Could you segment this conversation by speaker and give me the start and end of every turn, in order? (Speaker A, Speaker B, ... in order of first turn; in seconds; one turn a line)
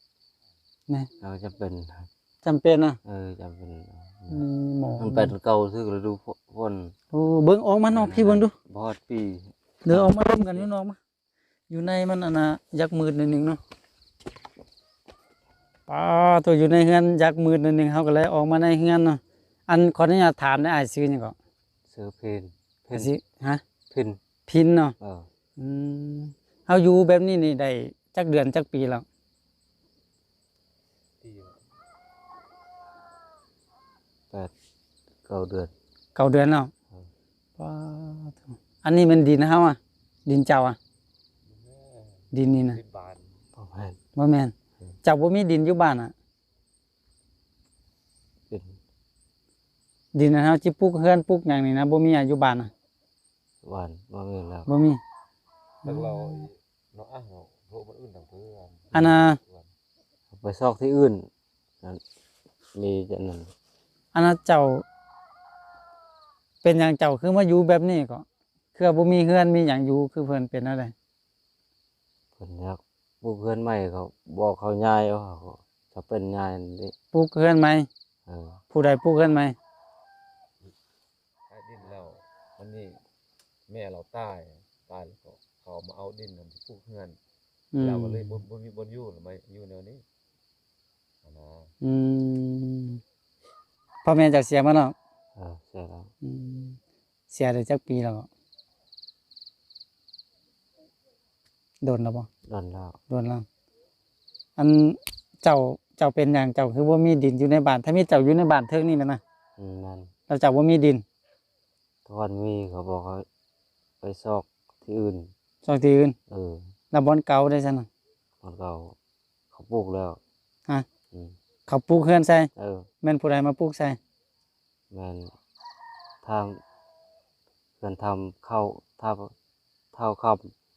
Speaker A: 1.2-2.1
Speaker B: 2.4-3.0
Speaker A: 3.0-4.4
Speaker B: 4.3-5.3
Speaker A: 5.0-7.0
Speaker B: 7.1-8.5
Speaker A: 7.9-10.7
Speaker B: 9.9-11.0
Speaker B: 11.7-13.6
Speaker B: 15.9-21.4
Speaker A: 21.9-23.1
Speaker B: 22.9-23.6
Speaker A: 23.9-24.2
Speaker B: 24.5-24.9
Speaker A: 25.0-25.3
Speaker B: 25.6-29.1
Speaker C: 31.2-31.6
Speaker A: 35.2-35.7
Speaker B: 36.1-36.7
Speaker B: 37.6-40.8
Speaker C: 41.5-42.2
Speaker B: 42.3-42.8
Speaker C: 42.7-43.3
Speaker A: 43.6-44.0
Speaker B: 44.1-46.1
Speaker A: 48.5-48.8
Speaker B: 50.1-52.7
Speaker A: 53.6-54.7
Speaker B: 54.7-55.0
Speaker C: 55.8-59.7
Speaker B: 55.9-56.1
Speaker B: 58.9-59.4
Speaker A: 60.3-61.3
Speaker A: 62.8-63.5
Speaker B: 64.1-64.8
Speaker B: 66.6-70.9
Speaker A: 72.4-76.9
Speaker B: 77.1-77.9
Speaker A: 78.3-78.6
Speaker B: 78.7-79.6
Speaker C: 81.5-83.0
Speaker C: 83.7-87.2
Speaker B: 87.7-88.4
Speaker C: 87.8-90.0
Speaker C: 91.2-91.7
Speaker B: 91.8-93.0
Speaker B: 94.0-95.0
Speaker A: 95.4-96.1
Speaker B: 96.2-96.8
Speaker B: 97.3-98.3
Speaker B: 101.8-102.3
Speaker A: 102.5-103.0
Speaker B: 103.1-103.5
Speaker B: 104.6-109.2
Speaker A: 109.6-110.1
Speaker B: 110.3-111.0
Speaker A: 112.1-113.3
Speaker A: 114.0-115.3
Speaker B: 115.6-116.2
Speaker A: 116.3-116.7
Speaker B: 116.9-117.9
Speaker A: 118.4-119.0
Speaker A: 119.5-120.2
Speaker B: 121.7-122.5
Speaker A: 122.6-122.9
Speaker B: 123.0-124.0
Speaker A: 124.9-125.3
Speaker A: 126.2-126.6
Speaker A: 127.8-129.3
Speaker A: 129.9-130.5